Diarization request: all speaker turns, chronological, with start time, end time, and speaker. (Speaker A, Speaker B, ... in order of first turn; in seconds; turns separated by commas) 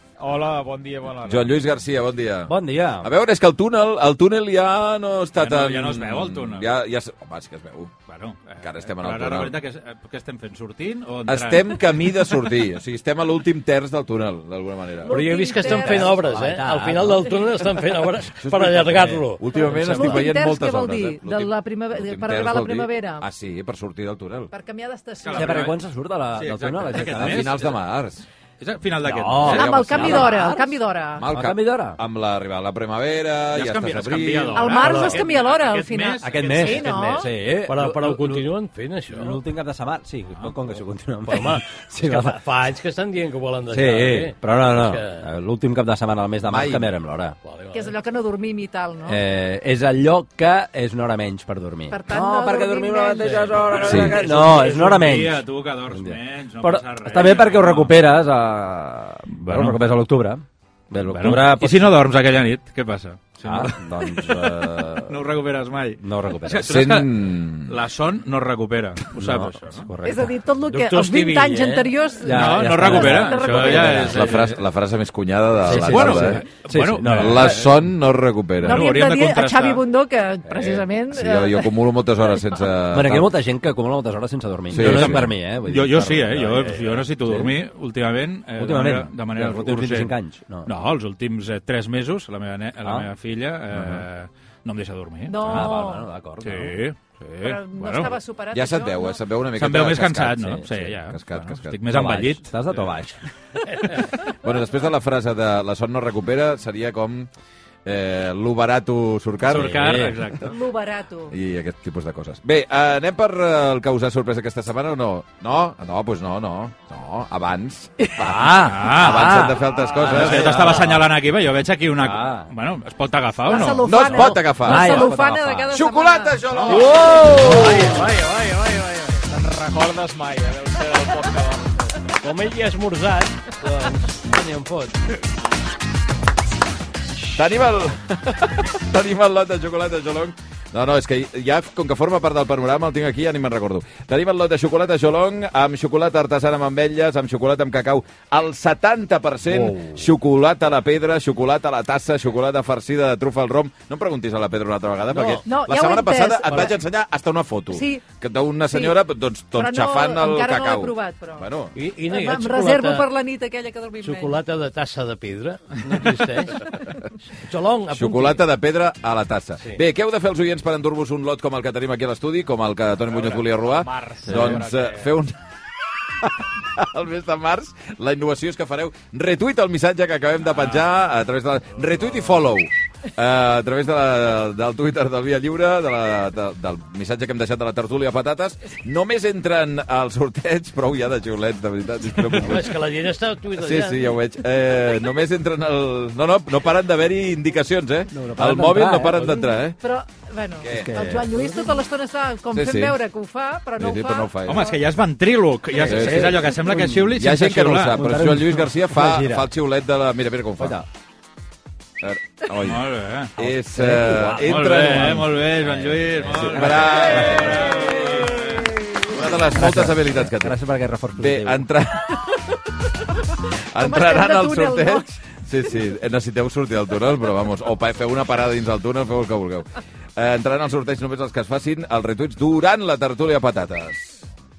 Speaker A: 0.2-1.5, Speaker B: 1.2-7.9, Speaker C: 2.5-3.1, Speaker D: 5.4-6.7, Speaker D: 8.1-12.3, Speaker B: 8.6-9.6, Speaker B: 11.3-15.2, Speaker E: 14.9-16.3, Speaker F: 15.1-20.2, Speaker C: 15.8-17.3, Speaker B: 18.4-24.5, Speaker E: 19.6-23.3, Speaker E: 24.5-25.7, Speaker D: 25.2-25.7, Speaker C: 25.3-27.7, Speaker D: 26.3-27.5, Speaker B: 27.1-28.2, Speaker D: 28.6-30.2, Speaker C: 29.0-30.8, Speaker E: 29.4-31.3, Speaker B: 29.4-30.3, Speaker B: 31.2-34.6, Speaker C: 31.3-32.0, Speaker D: 33.5-36.9, Speaker E: 34.5-37.3, Speaker F: 34.8-35.2, Speaker C: 36.2-38.5, Speaker F: 36.8-39.4, Speaker C: 39.1-42.4, Speaker F: 41.3-45.2, Speaker C: 43.7-47.3, Speaker B: 46.4-46.9, Speaker F: 47.4-47.9, Speaker E: 47.7-49.2, Speaker C: 49.0-62.0, Speaker E: 51.9-53.8, Speaker F: 53.2-53.6, Speaker B: 53.8-54.1, Speaker D: 53.9-57.9, Speaker D: 59.5-59.8, Speaker D: 60.9-64.5, Speaker C: 63.4-64.8, Speaker B: 64.3-65.1, Speaker D: 65.1-69.9, Speaker C: 66.0-66.8, Speaker B: 66.6-67.8, Speaker C: 69.1-70.4, Speaker E: 70.0-74.2, Speaker F: 70.7-71.9, Speaker C: 72.2-74.5, Speaker D: 72.2-74.6, Speaker B: 74.0-76.4, Speaker C: 75.6-77.6, Speaker D: 75.7-77.7, Speaker B: 77.1-78.9, Speaker D: 78.6-79.8, Speaker E: 78.6-81.7, Speaker B: 81.1-83.3, Speaker C: 82.9-87.5, Speaker B: 84.7-85.3, Speaker D: 84.8-90.1, Speaker C: 88.6-90.7, Speaker D: 90.6-95.8, Speaker C: 92.8-93.1, Speaker E: 95.3-96.1, Speaker C: 95.4-96.8, Speaker D: 96.4-98.2, Speaker E: 97.4-99.2, Speaker B: 98.5-101.8, Speaker D: 99.5-102.9, Speaker C: 101.9-103.2, Speaker B: 104.2-107.3, Speaker B: 107.8-110.1, Speaker D: 109.5-110.5, Speaker C: 109.5-110.3, Speaker E: 110.4-111.3, Speaker B: 111.3-120.9, Speaker C: 118.2-121.0, Speaker D: 118.6-119.4, Speaker D: 120.0-124.0, Speaker C: 122.0-122.5, Speaker E: 123.4-126.5, Speaker B: 123.8-125.1, Speaker C: 124.6-125.7, Speaker B: 125.7-128.0, Speaker D: 126.5-126.9, Speaker F: 126.7-129.2, Speaker C: 127.0-127.8, Speaker A: 129.3-131.9, Speaker F: 132.2-134.9, Speaker B: 137.3-161.7, Speaker F: 155.1-155.4, Speaker E: 155.4-156.8, Speaker E: 157.7-158.0, Speaker E: 158.7-159.0, Speaker E: 159.5-161.4, Speaker F: 161.7-163.1, Speaker E: 162.1-164.4, Speaker F: 164.0-166.7, Speaker F: 167.3-168.4, Speaker B: 167.9-175.4, Speaker A: 173.1-175.1, Speaker B: 176.0-192.8, Speaker D: 180.5-180.8, Speaker F: 192.4-194.1, Speaker B: 193.6-199.8, Speaker C: 198.1-199.3, Speaker E: 199.8-204.8, Speaker B: 200.6-200.9, Speaker C: 200.8-201.6, Speaker B: 202.5-203.0, Speaker B: 203.8-204.7, Speaker D: 204.4-208.0, Speaker C: 205.8-207.1, Speaker B: 205.8-206.5, Speaker B: 207.1-210.8, Speaker C: 207.9-209.4, Speaker C: 210.6-210.8, Speaker B: 212.0-212.8, Speaker D: 212.6-213.4, Speaker B: 213.3-215.4, Speaker C: 213.8-217.6, Speaker D: 214.2-218.7, Speaker B: 216.2-217.9, Speaker E: 217.9-219.1, Speaker B: 219.1-220.6, Speaker C: 219.5-221.6, Speaker B: 221.1-222.2, Speaker B: 223.7-234.2, Speaker E: 223.8-225.1